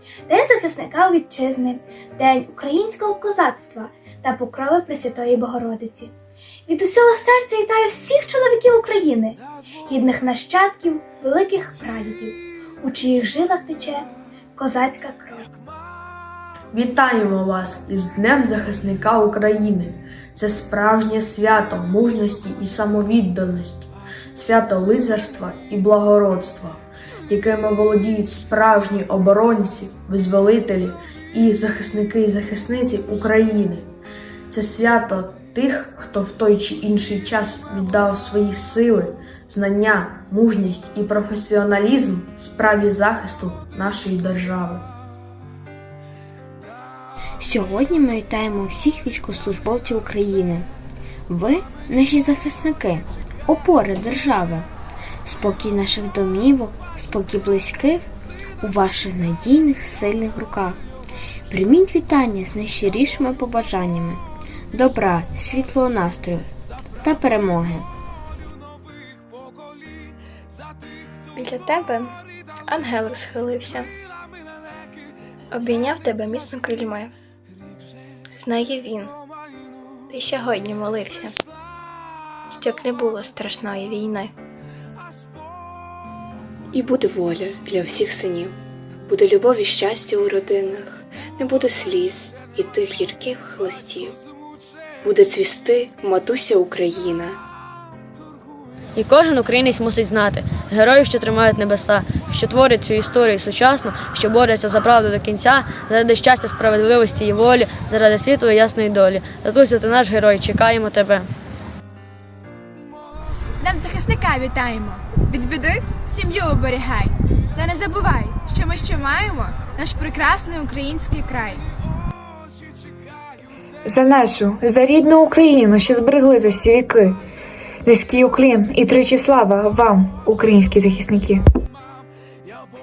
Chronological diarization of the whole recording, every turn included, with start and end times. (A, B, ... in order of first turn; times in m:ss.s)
0:00.3-0:06.1 A
0:06.7-0:15.5 A
0:16.7-0:33.9 B
0:34.5-0:44.9 B
0:47.4-0:50.7 C
0:51.3-0:54.7 C
0:55.2-0:58.1 C
0:58.6-1:00.8 C
1:01.5-1:06.5 C
1:07.0-1:07.9 C
1:11.4-1:12.1 D
1:12.7-1:13.9 D
1:15.5-1:17.1 D
1:18.3-1:19.1 D
1:20.1-1:21.4 D
1:22.5-1:24.3 D
1:26.8-1:28.5 E
1:29.1-1:34.2 E
1:35.0-1:37.3 E
1:39.0-1:51.3 F
1:53.6-2:01.6 G
2:03.8-2:07.2 H
2:07.8-2:11.4 H